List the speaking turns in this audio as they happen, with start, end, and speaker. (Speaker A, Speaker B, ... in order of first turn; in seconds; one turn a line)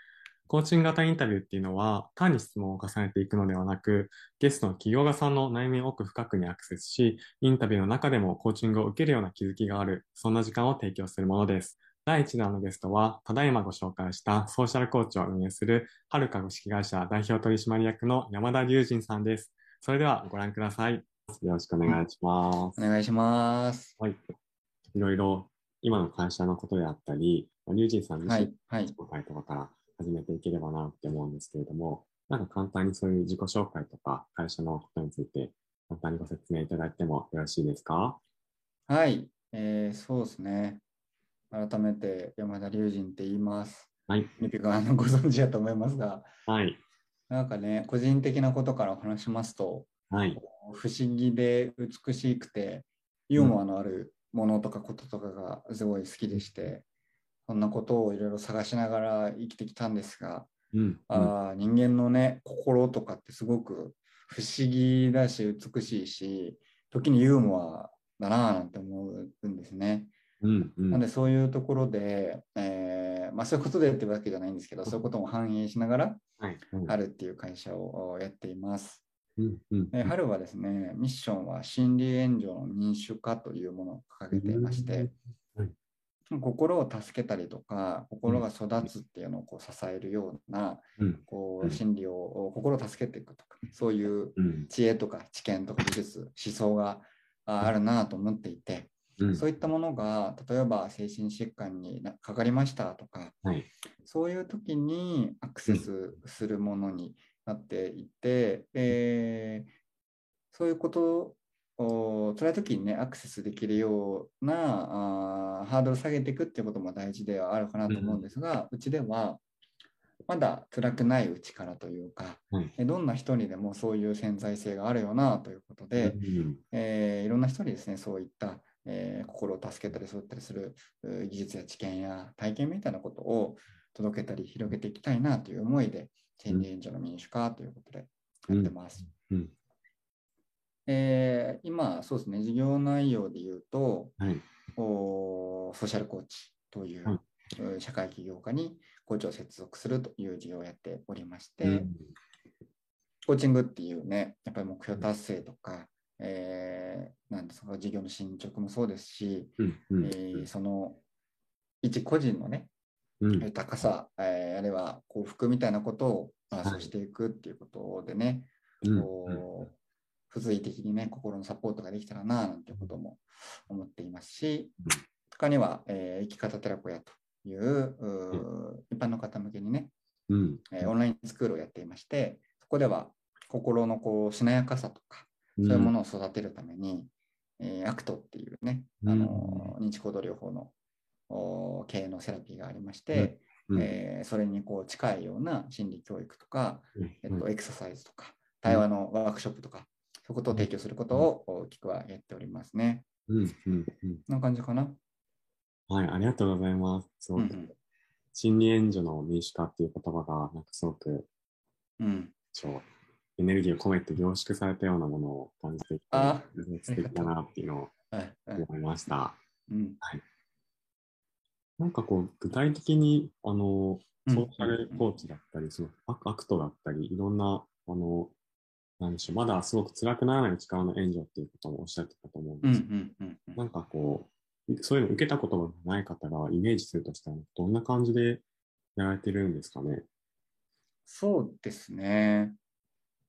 Speaker A: 0.5-22.8
Speaker B: 22.8-23.9
Speaker A: 24.9-38.2
Speaker B: 28.2-28.9
Speaker B: 38.9-40.8
Speaker B: 41.5-46.3
Speaker A: 46.5-46.8
Speaker B: 47.3-56.8
Speaker A: 50.1-50.4
Speaker B: 57.5-60.5
Speaker A: 60.7-61.3
Speaker B: 61.1-70.1
Speaker A: 70.4-71.0
Speaker B: 70.9-76.2
Speaker A: 76.4-76.9
Speaker B: 76.8-79.0
Speaker A: 79.4-80.1
Speaker B: 79.9-85.1
Speaker A: 84.3-85.7
Speaker B: 86.3-103.4
Speaker A: 91.0-91.8
Speaker A: 94.4-94.7
Speaker A: 99.2-99.4
Speaker B: 104.0-109.7
Speaker B: 110.5-119.4
Speaker A: 117.9-118.2
Speaker B: 120.3-126.2
Speaker A: 126.0-126.6
Speaker B: 126.7-139.1
Speaker A: 138.5-139.5
Speaker B: 140.9-144.1
Speaker B: 144.8-151.9
Speaker A: 151.6-152.0
Speaker B: 153.2-161.0
Speaker A: 159.6-160.5
Speaker B: 161.8-162.7
Speaker A: 163.2-163.5
Speaker B: 163.4-169.7
Speaker A: 166.6-166.9
Speaker A: 168.8-169.4
Speaker B: 170.3-174.7
Speaker B: 175.3-179.9
Speaker A: 180.3-180.9
Speaker B: 180.7-190.7
Speaker A: 185.6-185.9
Speaker A: 189.0-189.7
Speaker B: 191.3-203.1
Speaker A: 193.1-193.9
Speaker A: 197.0-197.4
Speaker A: 200.5-201.3
Speaker A: 203.3-204.2
Speaker B: 204.3-205.0
Speaker A: 205.9-207.6
Speaker B: 207.3-207.7
Speaker A: 208.3-211.3
Speaker B: 212.0-212.3
Speaker A: 212.5-212.8
Speaker A: 213.4-217.9
Speaker B: 216.1-217.3
Speaker B: 218.1-218.7
Speaker A: 218.6-219.4
Speaker B: 219.7-220.0
Speaker A: 221.8-228.3
Speaker B: 224.2-225.0
Speaker A: 229.0-232.8
Speaker B: 232.6-233.7
Speaker A: 233.6-238.4
Speaker A: 238.9-240.1
Speaker B: 241.1-242.6